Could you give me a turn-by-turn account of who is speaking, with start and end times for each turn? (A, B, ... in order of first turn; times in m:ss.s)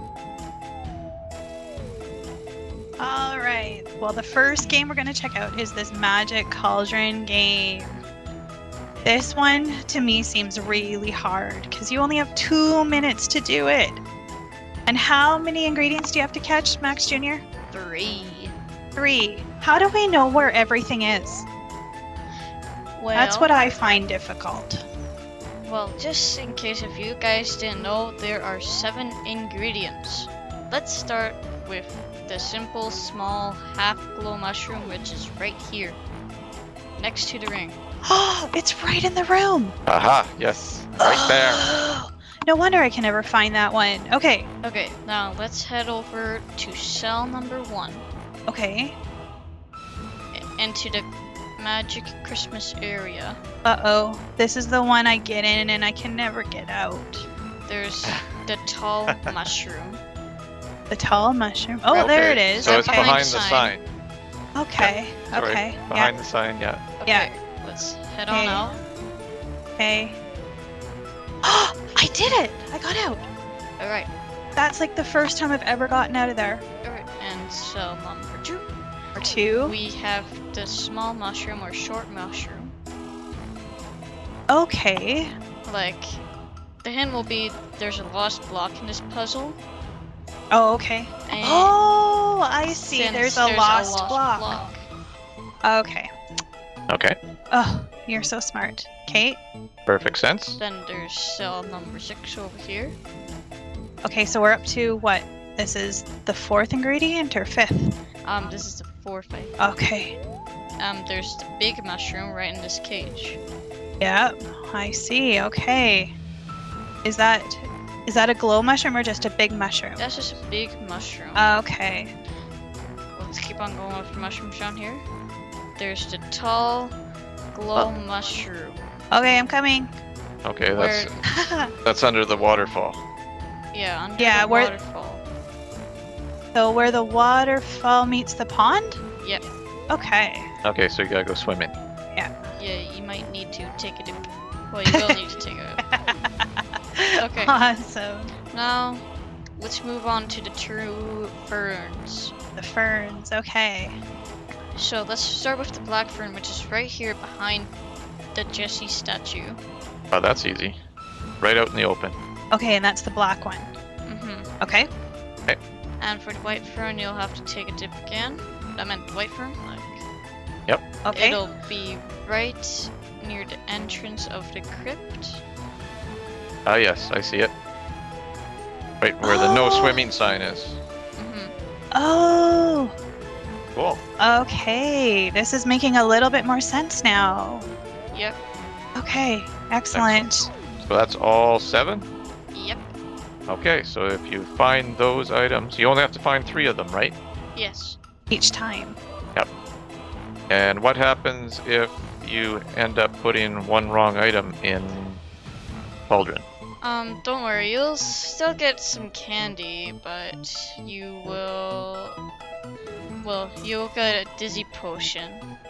0:03.0-0:08.0 A
0:09.0-0:14.0 A
0:14.8-0:17.4 A
0:17.7-0:18.5 B
0:19.0-0:21.5 A
0:23.0-0:23.5 B
0:23.1-0:24.8 A
0:25.6-0:36.0 B
0:37.0-0:37.8 B
0:38.0-0:39.7 A
0:39.8-0:41.7 C
0:41.0-0:44.5 A
0:44.6-0:48.0 B
0:48.5-0:49.0 A
0:50.3-0:51.1 B
0:51.6-0:53.4 B
0:53.6-0:57.2 A
0:57.7-1:00.0 B
0:59.1-0:59.3 C
1:00.9-1:03.2 A
1:01.9-1:03.7 B
1:02.0-1:03.8 C
1:04.5-1:06.1 A
1:04.8-1:07.0 C
1:07.0-1:08.8 B
1:08.3-1:08.7 A
1:09.8-1:10.2 A
1:11.4-1:13.2 A
1:13.8-1:14.1 B
1:14.6-1:16.6 A
1:16.8-1:18.6 B
1:19.2-1:19.7 A
1:19.6-1:22.7 B
1:24.5-1:25.3 A
1:25.6-1:26.2 B
1:26.8-1:29.6 B
1:30.5-1:34.6 A
1:31.3-1:31.7 B
1:32.7-1:34.8 B
1:35.6-1:36.1 A
1:36.9-1:37.2 C
1:37.5-1:39.4 A
1:39.8-1:40.6 C
1:40.6-1:43.0 B
1:44.0-1:47.9 A
1:48.2-1:49.5 B
1:49.6-1:50.2 A
1:50.8-1:53.4 B
1:54.0-1:56.1 A
1:57.0-2:00.0 A
2:00.0-2:01.4 B
2:01.3-2:02.1 A
2:03.1-2:05.0 B
2:05.8-2:07.0 B
2:07.5-2:08.8 B
2:09.1-2:09.9 A
2:10.4-2:11.1 C
2:10.7-2:11.2 B
2:11.2-2:11.7 A
2:11.8-2:13.0 C
2:13.7-2:15.2 B
2:14.2-2:14.8 A
2:16.5-2:19.0 A
2:19.9-2:20.5 A
2:20.6-2:21.7 C
2:22.6-2:25.8 B
2:24.9-2:25.2 A
2:25.8-2:28.3 A
2:27.2-2:27.5 B
2:28.5-2:29.0 B
2:29.6-2:32.3 B
2:32.6-2:34.0 A
2:34.7-2:37.7 B
2:38.3-2:39.6 B
2:40.1-2:40.8 C
2:41.4-2:42.2 C
2:42.5-2:43.7 A
2:44.0-2:44.5 B
2:44.6-2:44.9 A
2:46.0-2:50.0 B
2:50.7-2:50.9 C
2:51.0-2:51.4 A
2:51.1-2:55.4 B
2:56.6-2:57.5 C
2:59.0-3:00.8 C
2:59.2-3:00.0 A
3:01.2-3:01.5 B
3:01.9-3:02.9 A
3:03.7-3:04.0 C
3:04.2-3:07.7 A
3:08.1-3:08.4 B
3:09.0-3:10.5 A
3:09.9-3:12.1 C
3:12.5-3:12.9 B
3:13.5-3:17.2 C
3:17.5-3:18.0 B
3:18.3-3:19.0 A
3:20.5-3:25.2 C
3:26.1-3:26.4 C
3:26.8-3:32.2 B
3:33.2-3:35.4 B